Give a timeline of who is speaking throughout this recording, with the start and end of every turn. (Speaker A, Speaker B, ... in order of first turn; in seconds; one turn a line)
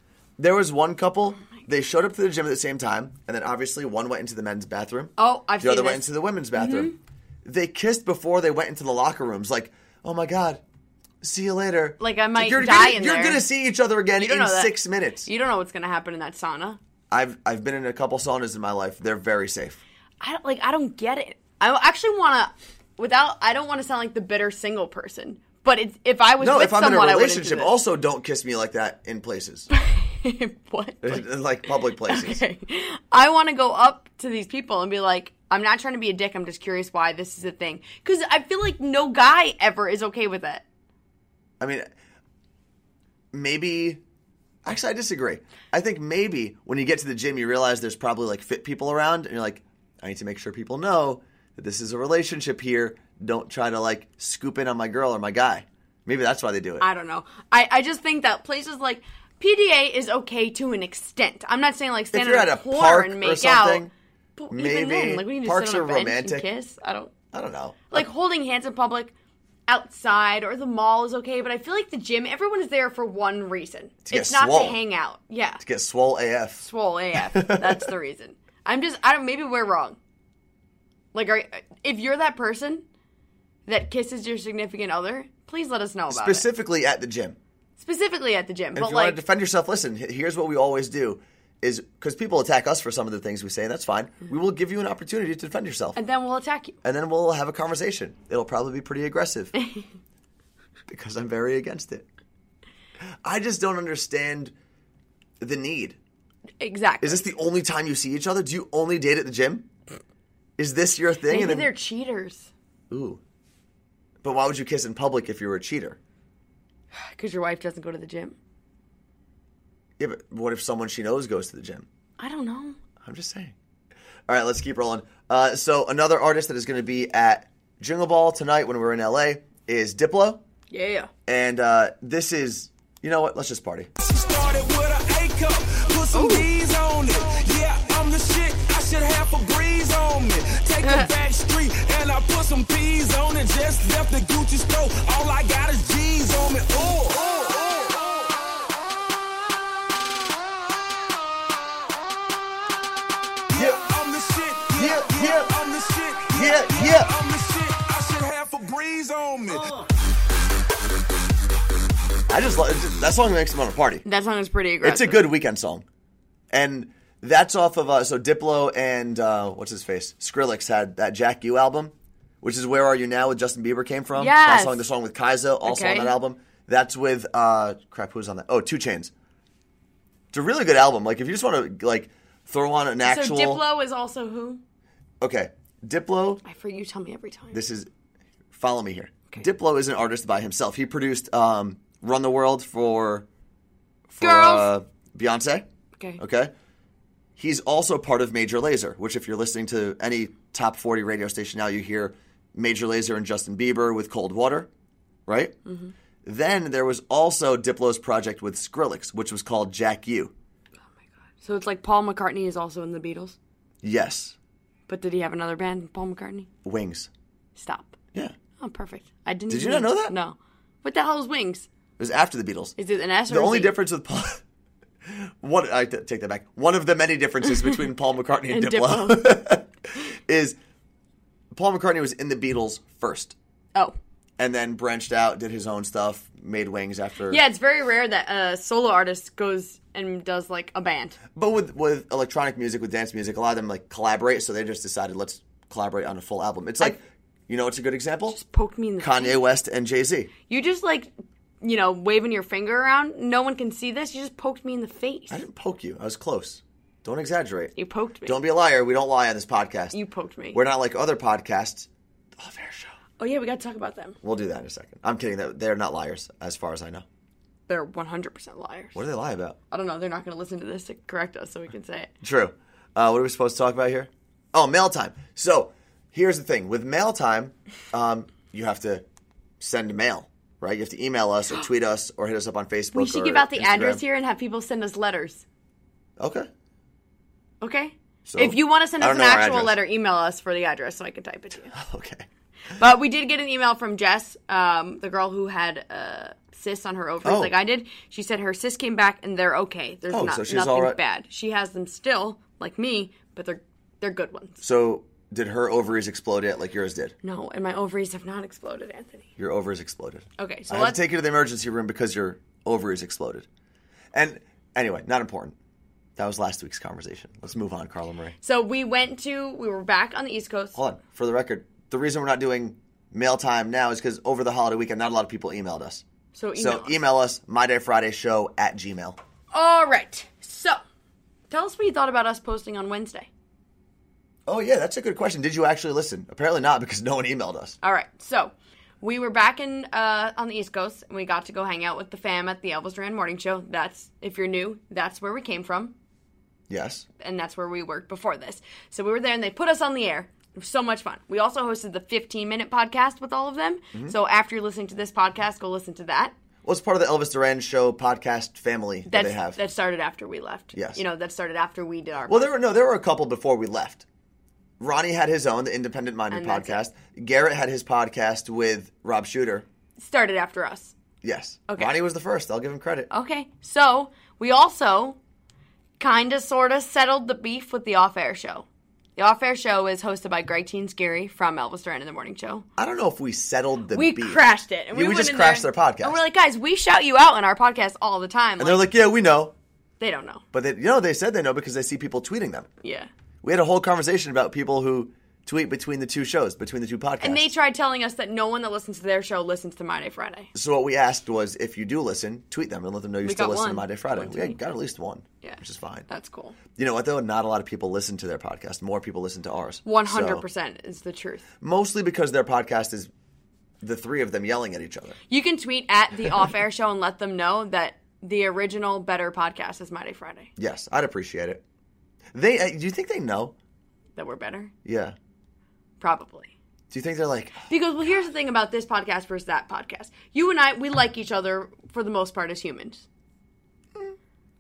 Speaker A: 0.4-6.9
Speaker B: 5.2-7.0
Speaker A: 7.5-10.6
Speaker A: 11.2-15.3
Speaker B: 12.0-13.4
Speaker B: 14.2-16.8
Speaker A: 17.1-19.8
Speaker B: 20.2-27.8
Speaker A: 26.4-29.7
Speaker B: 29.7-40.6
Speaker A: 31.0-32.4
Speaker A: 41.6-41.9
Speaker A: 43.3-44.0
Speaker A: 44.6-56.9
Speaker B: 56.8-67.1
Speaker A: 62.1-63.9
Speaker A: 64.5-66.5
Speaker A: 67.3-68.1
Speaker B: 67.9-69.1
Speaker B: 69.7-75.6
Speaker A: 74.1-74.8
Speaker A: 75.6-76.7
Speaker B: 76.6-80.0
Speaker A: 77.2-77.9
Speaker B: 81.1-82.8
Speaker B: 83.7-86.5
Speaker A: 86.1-87.4
Speaker B: 87.8-89.2
Speaker A: 88.8-96.0
Speaker B: 96.0-96.8
Speaker A: 96.8-99.5
Speaker B: 99.5-99.8
Speaker A: 100.9-102.0
Speaker A: 103.2-104.5
Speaker A: 105.4-106.0
Speaker B: 106.6-107.3
Speaker A: 107.0-109.7
Speaker A: 110.6-111.7
Speaker B: 111.3-112.5
Speaker A: 112.9-113.2
Speaker A: 114.2-116.0
Speaker B: 116.9-118.4
Speaker A: 120.0-121.9
Speaker B: 122.2-122.8
Speaker A: 123.0-123.5
Speaker A: 124.3-130.4
Speaker B: 130.7-131.1
Speaker A: 131.3-133.9
Speaker C: 134.0-148.1
Speaker B: 136.1-136.5
Speaker B: 140.8-141.1
Speaker C: 153.5-159.7
Speaker A: 154.8-155.5
Speaker A: 156.3-157.1
Speaker A: 162.3-164.1
Speaker B: 164.1-165.3
Speaker A: 164.8-165.8
Speaker A: 166.5-179.1
Speaker B: 174.2-174.8
Speaker B: 175.7-176.1
Speaker A: 180.3-183.6
Speaker B: 183.0-184.6
Speaker A: 185.2-186.4
Speaker B: 186.4-187.6
Speaker A: 187.5-187.9
Speaker A: 188.5-193.3
Speaker A: 194.1-195.7
Speaker B: 194.2-194.7
Speaker A: 196.2-196.5
Speaker A: 197.4-204.7
Speaker A: 205.3-205.6
Speaker B: 205.7-205.9
Speaker A: 206.2-210.3
Speaker B: 211.4-213.4
Speaker A: 213.8-214.4
Speaker B: 214.9-216.5
Speaker A: 216.6-217.1
Speaker B: 217.6-218.0
Speaker B: 218.6-221.7
Speaker A: 219.5-220.1
Speaker A: 222.0-222.8
Speaker B: 222.8-223.7
Speaker A: 223.3-224.4
Speaker A: 225.1-229.7
Speaker B: 228.5-229.4
Speaker A: 230.3-230.6
Speaker A: 231.5-233.4
Speaker A: 234.4-237.4
Speaker B: 237.3-241.2
Speaker A: 241.3-248.4
Speaker B: 248.3-249.4
Speaker A: 249.0-250.3
Speaker B: 250.5-251.1
Speaker B: 251.6-255.4
Speaker A: 255.3-260.0
Speaker B: 257.8-258.4
Speaker B: 259.9-260.6
Speaker A: 260.5-262.9
Speaker B: 263.2-264.2
Speaker A: 264.2-267.1
Speaker B: 267.7-269.0
Speaker A: 268.9-269.6
Speaker B: 269.7-272.1
Speaker A: 272.2-279.0
Speaker A: 279.6-284.0
Speaker B: 282.9-285.4
Speaker A: 286.2-286.5
Speaker B: 287.6-291.8
Speaker A: 288.2-289.8
Speaker A: 291.7-292.3
Speaker B: 292.8-304.6
Speaker A: 297.2-297.6
Speaker A: 300.1-301.0
Speaker A: 304.6-307.1
Speaker B: 307.2-309.3
Speaker A: 309.4-313.5
Speaker B: 310.4-311.0
Speaker A: 314.1-315.6
Speaker A: 316.2-318.4
Speaker B: 318.4-320.8
Speaker A: 320.8-326.0
Speaker B: 326.3-327.0
Speaker A: 326.6-329.2
Speaker B: 329.5-330.8
Speaker B: 331.5-333.3
Speaker A: 334.5-337.8
Speaker B: 337.8-345.9
Speaker A: 346.7-347.1
Speaker B: 347.2-356.3
Speaker A: 356.6-359.6
Speaker B: 359.1-362.5
Speaker A: 360.7-361.0
Speaker A: 362.3-364.1
Speaker A: 364.8-369.7
Speaker B: 366.3-366.8
Speaker B: 370.0-370.9
Speaker A: 371.2-373.1
Speaker B: 371.7-371.9
Speaker B: 373.1-375.2
Speaker B: 376.0-378.7
Speaker B: 379.2-382.7
Speaker A: 382.8-386.2
Speaker B: 383.9-388.9
Speaker A: 388.6-389.5
Speaker B: 390.0-390.4
Speaker A: 390.5-392.7
Speaker B: 392.8-393.1
Speaker A: 393.4-397.5
Speaker B: 397.2-400.5
Speaker A: 400.5-406.1
Speaker B: 403.2-404.6
Speaker B: 405.4-406.6
Speaker A: 406.8-410.4
Speaker B: 409.9-411.4
Speaker A: 411.6-413.1
Speaker A: 413.8-415.2
Speaker B: 415.3-420.5
Speaker A: 420.6-421.6
Speaker A: 422.3-423.6
Speaker B: 424.2-424.7
Speaker A: 424.9-425.2
Speaker B: 426.0-426.5
Speaker A: 426.9-427.7
Speaker B: 427.7-433.1